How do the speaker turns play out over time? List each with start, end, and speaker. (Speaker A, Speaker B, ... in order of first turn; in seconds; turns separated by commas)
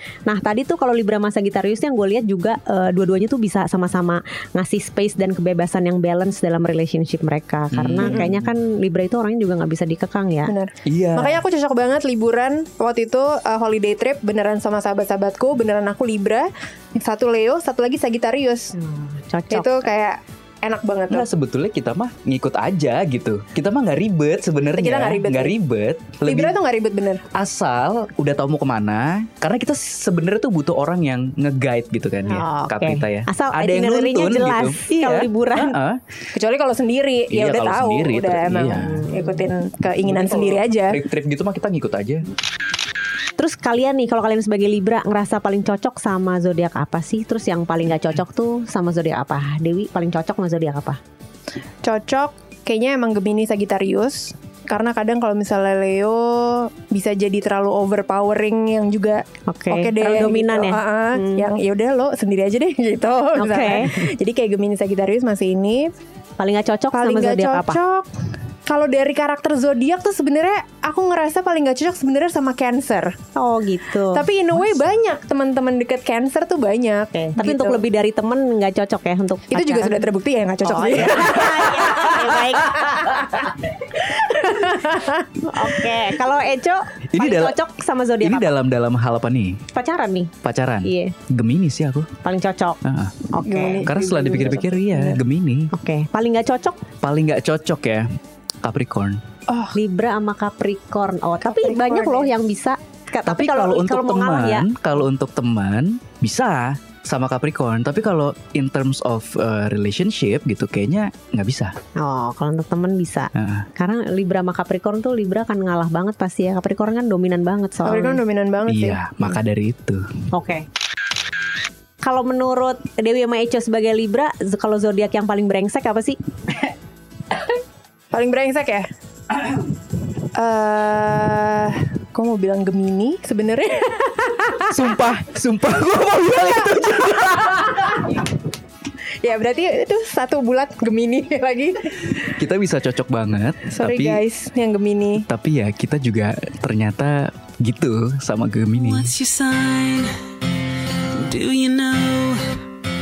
Speaker A: 0.3-10.5, Speaker B: 7.7-8.5, Speaker C: 8.0-8.3, Speaker C: 10.5-18.7, Speaker B: 10.8-11.4, Speaker A: 18.7-19.9, Speaker C: 19.5-21.3, Speaker B: 21.1-26.6, Speaker C: 24.8-25.6, Speaker C: 26.2-27.2, Speaker B: 27.3-36.0, Speaker A: 32.3-35.8, Speaker C: 36.3-41.0, Speaker B: 37.3-39.1, Speaker A: 38.7-39.5, Speaker B: 40.0-42.2, Speaker A: 43.4-51.0, Speaker C: 51.8-65.9, Speaker A: 59.5-61.5, Speaker A: 63.4-64.1, Speaker A: 66.4-67.8, Speaker C: 66.9-68.1, Speaker C: 68.7-73.2, Speaker A: 73.3-74.2, Speaker C: 74.1-77.8, Speaker A: 77.1-80.0, Speaker C: 79.5-85.8, Speaker A: 80.7-83.3, Speaker A: 85.4-88.5, Speaker B: 87.1-87.6, Speaker B: 88.2-89.7, Speaker A: 89.7-90.3, Speaker B: 90.4-92.2, Speaker A: 90.8-91.1, Speaker A: 92.2-93.9, Speaker B: 92.8-95.7, Speaker C: 93.5-95.2, Speaker A: 95.7-96.8, Speaker B: 97.0-98.1, Speaker B: 98.6-99.2, Speaker C: 99.5-99.7, Speaker A: 99.7-104.7, Speaker C: 101.4-102.3, Speaker B: 103.3-111.8, Speaker A: 112.0-118.2, Speaker B: 113.3-113.7, Speaker C: 117.8-119.0, Speaker B: 118.7-120.1, Speaker A: 120.3-120.7, Speaker A: 122.0-126.2, Speaker C: 128.1-128.9, Speaker C: 130.3-134.8, Speaker B: 134.7-138.0, Speaker C: 137.4-138.1, Speaker C: 139.2-142.4, Speaker B: 142.2-144.2, Speaker C: 143.7-145.3, Speaker B: 145.2-149.1, Speaker D: 148.7-150.1, Speaker D: 151.1-152.6